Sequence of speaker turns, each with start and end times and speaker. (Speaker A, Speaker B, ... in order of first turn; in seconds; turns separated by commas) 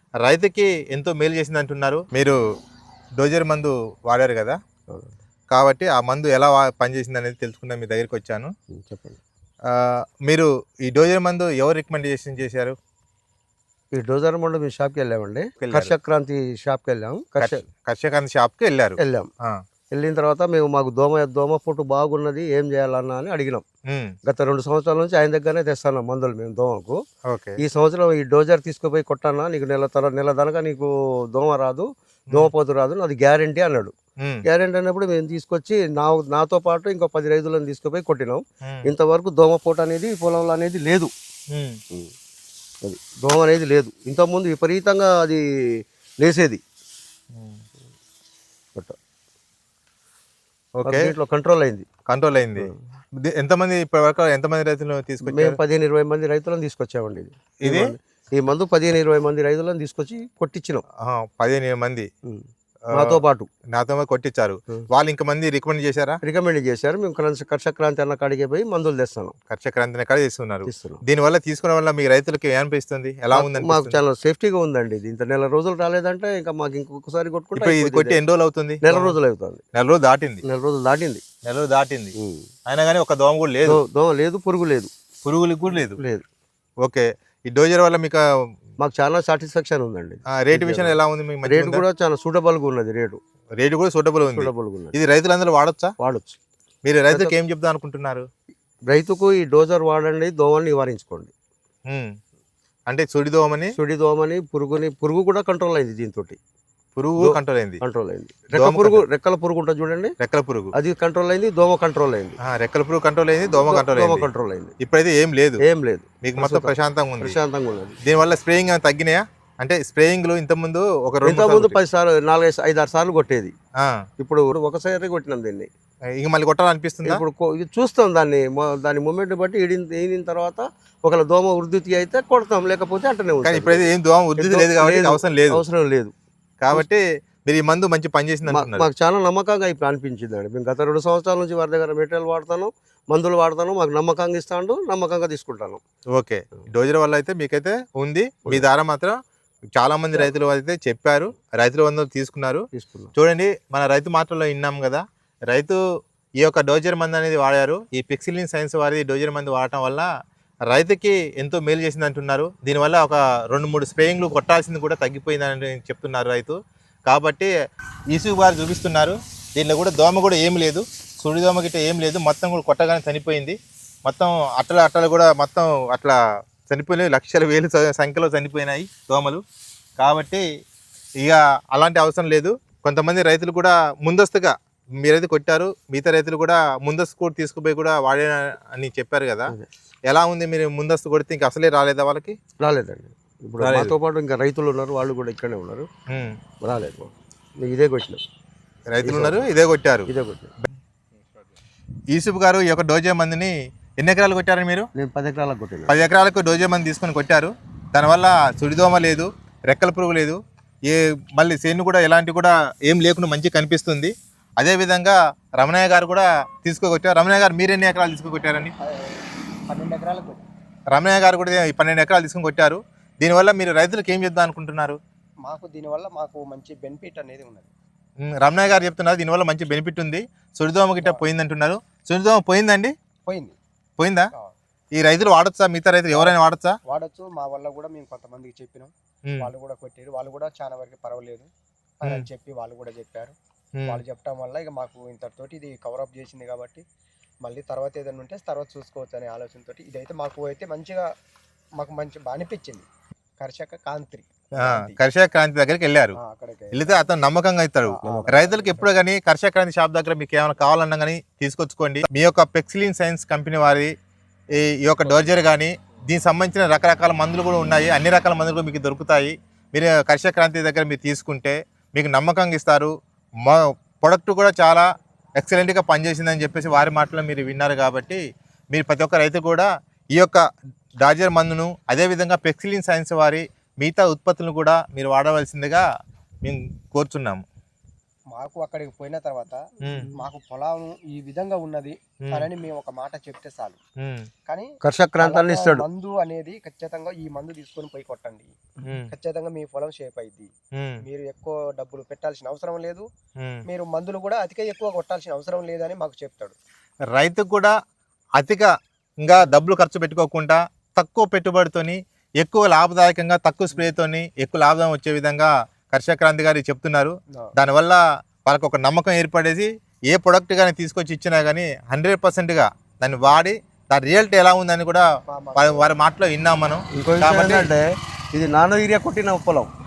Speaker A: 0.2-2.4, Speaker A: 3.2-4.6, Speaker A: 5.5-8.5, Speaker B: 8.7-9.2, Speaker A: 9.7-12.7, Speaker B: 13.9-17.6, Speaker A: 15.6-15.9, Speaker A: 17.4-19.6, Speaker B: 19.0-19.3, Speaker B: 19.9-23.6, Speaker A: 23.9-24.1, Speaker B: 24.2-27.0, Speaker A: 27.3-27.6, Speaker B: 27.6-33.9, Speaker A: 34.2-34.4, Speaker B: 34.4-41.1, Speaker A: 38.6-38.9, Speaker A: 41.5-41.8, Speaker B: 42.8-46.6, Speaker A: 47.3-47.6, Speaker A: 50.8-51.0, Speaker B: 50.8-51.9, Speaker A: 52.1-55.6, Speaker B: 55.2-60.8, Speaker A: 57.6-57.9, Speaker A: 61.0-62.1, Speaker B: 62.2-63.5, Speaker A: 62.9-63.2, Speaker A: 63.7-66.2, Speaker B: 66.2-69.3, Speaker A: 69.5-74.0, Speaker B: 70.7-71.0, Speaker B: 73.3-78.2, Speaker A: 77.5-79.2, Speaker B: 78.8-79.6, Speaker A: 79.7-80.4, Speaker B: 80.4-81.2, Speaker A: 81.5-82.1, Speaker B: 82.2-82.5, Speaker A: 82.7-83.8, Speaker B: 83.6-84.9, Speaker A: 85.2-86.0, Speaker B: 85.7-86.2, Speaker A: 86.8-88.2, Speaker B: 88.8-93.2, Speaker A: 90.3-91.8, Speaker A: 93.6-95.9, Speaker B: 94.3-94.9, Speaker B: 96.0-96.4, Speaker A: 96.8-98.2, Speaker B: 97.1-97.3, Speaker B: 98.9-101.3, Speaker A: 102.9-103.7, Speaker B: 103.7-106.4, Speaker A: 107.0-107.8, Speaker B: 107.2-110.1, Speaker A: 108.5-109.0, Speaker A: 110.2-110.7, Speaker B: 110.7-112.4, Speaker A: 112.4-114.3, Speaker B: 113.5-114.8, Speaker A: 114.8-115.6, Speaker B: 115.6-118.0, Speaker A: 116.2-117.4, Speaker A: 118.0-121.8, Speaker B: 121.2-123.5, Speaker A: 123.8-124.0, Speaker B: 124.2-125.7, Speaker A: 126.2-127.2, Speaker B: 127.0-136.1, Speaker A: 133.4-135.6, Speaker A: 136.6-138.9, Speaker B: 138.5-145.8, Speaker A: 146.2-149.2, Speaker A: 149.8-152.6, Speaker B: 152.7-153.1, Speaker A: 153.2-155.8, Speaker A: 156.4-160.1, Speaker A: 160.7-166.6, Speaker A: 167.1-167.5, Speaker A: 168.1-179.4, Speaker A: 180.0-180.4, Speaker A: 181.2-184.5, Speaker A: 185.0-189.5, Speaker A: 190.1-192.4, Speaker B: 192.6-195.9, Speaker A: 193.6-193.9, Speaker A: 196.1-196.4, Speaker B: 196.6-198.2, Speaker A: 198.9-200.1, Speaker B: 199.0-199.4, Speaker B: 200.1-200.5, Speaker A: 202.1-204.9, Speaker B: 204.9-205.9, Speaker A: 205.9-218.7, Speaker C: 218.8-220.4, Speaker A: 220.9-225.0, Speaker C: 225.4-227.7, Speaker A: 228.2-232.9, Speaker C: 231.0-231.2, Speaker C: 233.2-233.6, Speaker A: 234.0-234.3, Speaker A: 235.0-236.8, Speaker C: 236.1-241.5, Speaker C: 242.0-243.3, Speaker C: 243.8-246.8, Speaker C: 247.4-251.0, Speaker C: 251.8-252.8, Speaker C: 253.4-255.0, Speaker A: 254.6-256.2, Speaker C: 256.2-257.0, Speaker A: 256.7-263.9, Speaker C: 257.9-258.9, Speaker B: 258.0-258.3, Speaker A: 264.6-272.9, Speaker A: 273.4-274.8, Speaker A: 275.4-278.2, Speaker A: 278.7-280.4, Speaker A: 281.0-285.8, Speaker A: 286.4-287.4, Speaker C: 288.3-289.6, Speaker A: 289.8-290.1, Speaker C: 290.1-293.8, Speaker A: 294.0-294.3, Speaker B: 294.8-295.9, Speaker C: 295.2-298.5, Speaker A: 298.8-299.1, Speaker C: 299.1-300.5, Speaker C: 301.0-303.1, Speaker C: 303.7-306.6, Speaker A: 307.1-307.7, Speaker A: 308.4-308.7, Speaker A: 309.2-327.7, Speaker C: 325.3-325.9, Speaker B: 326.9-329.7